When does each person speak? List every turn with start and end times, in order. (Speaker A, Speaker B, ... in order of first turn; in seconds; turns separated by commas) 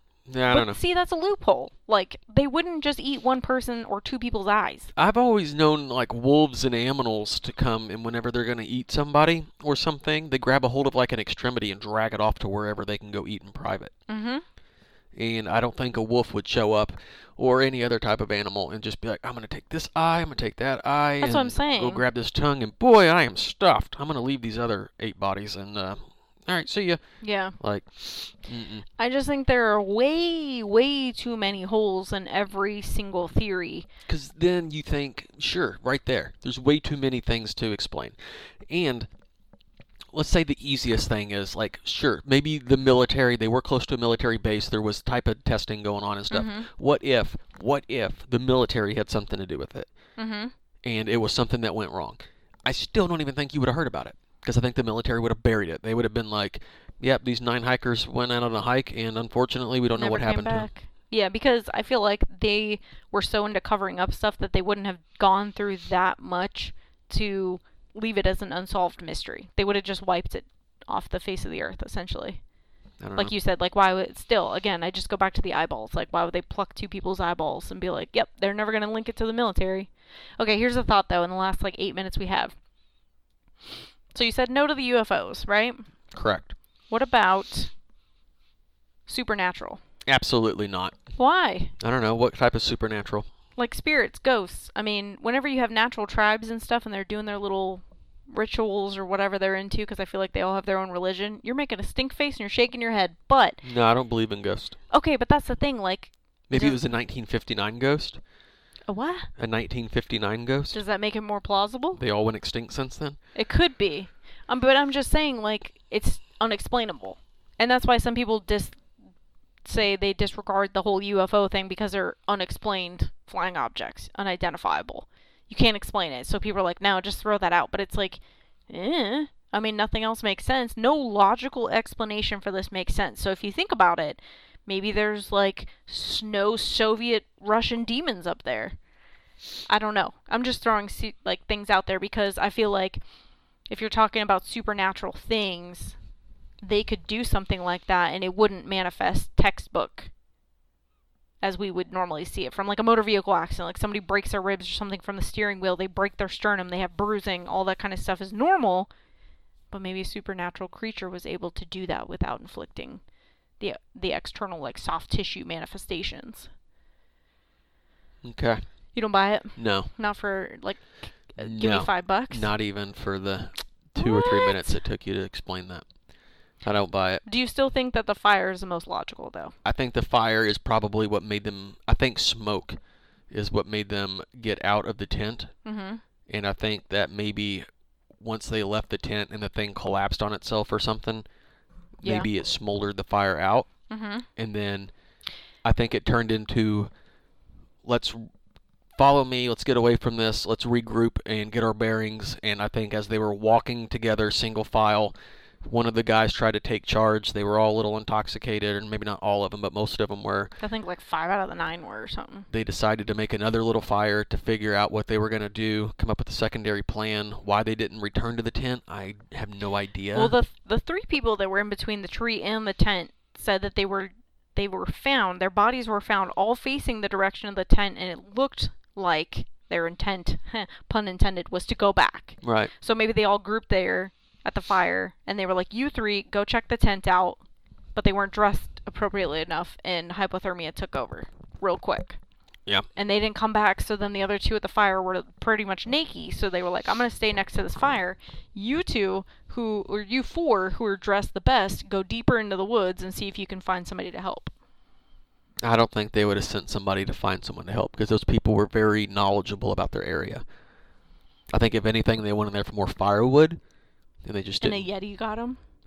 Speaker A: 0.3-0.8, Speaker B: 0.5-4.9, Speaker A: 5.0-13.9, Speaker B: 14.1-14.4, Speaker A: 15.1-27.0, Speaker B: 21.2-22.0, Speaker B: 27.2-27.6, Speaker A: 27.6-28.9, Speaker B: 29.0-33.9, Speaker A: 34.1-39.1, Speaker A: 40.1-49.9, Speaker B: 46.3-46.7, Speaker B: 50.2-50.5, Speaker A: 50.8-60.7, Speaker B: 60.0-72.4, Speaker A: 73.0-73.3, Speaker B: 73.2-82.5, Speaker B: 84.1-85.8, Speaker A: 86.1-86.5, Speaker B: 86.9-87.7, Speaker B: 89.1-89.8, Speaker A: 90.1-91.0, Speaker B: 91.2-91.7, Speaker A: 91.8-93.3, Speaker B: 93.6-103.6, Speaker A: 103.6-104.8, Speaker B: 104.9-106.8, Speaker A: 106.5-108.2, Speaker B: 108.9-109.3, Speaker A: 109.4-110.8, Speaker B: 110.7-112.0, Speaker A: 112.0-113.2, Speaker B: 113.3-118.8, Speaker B: 119.6-138.8, Speaker B: 139.7-143.0, Speaker B: 143.7-146.0, Speaker B: 146.6-150.1, Speaker B: 151.4-158.9, Speaker B: 159.7-163.0, Speaker B: 163.6-166.5, Speaker A: 168.2-168.6, Speaker B: 168.9-172.5, Speaker A: 169.6-169.9, Speaker A: 171.4-175.9, Speaker B: 174.0-174.7, Speaker A: 176.6-177.2, Speaker B: 177.2-179.6, Speaker A: 179.6-182.8, Speaker A: 183.3-185.5, Speaker B: 185.7-186.0, Speaker A: 186.3-187.7, Speaker A: 188.2-191.2, Speaker A: 192.0-193.7, Speaker B: 192.0-192.3, Speaker B: 193.9-194.3, Speaker A: 194.4-194.9, Speaker A: 195.6-196.9, Speaker A: 197.8-198.3, Speaker A: 199.0-210.5, Speaker B: 210.6-212.5, Speaker A: 212.5-220.3, Speaker B: 220.1-237.4, Speaker A: 232.4-232.7, Speaker B: 237.9-242.2, Speaker B: 243.0-254.5, Speaker A: 255.6-260.4, Speaker A: 261.5-263.6, Speaker A: 264.2-264.9, Speaker B: 264.6-265.6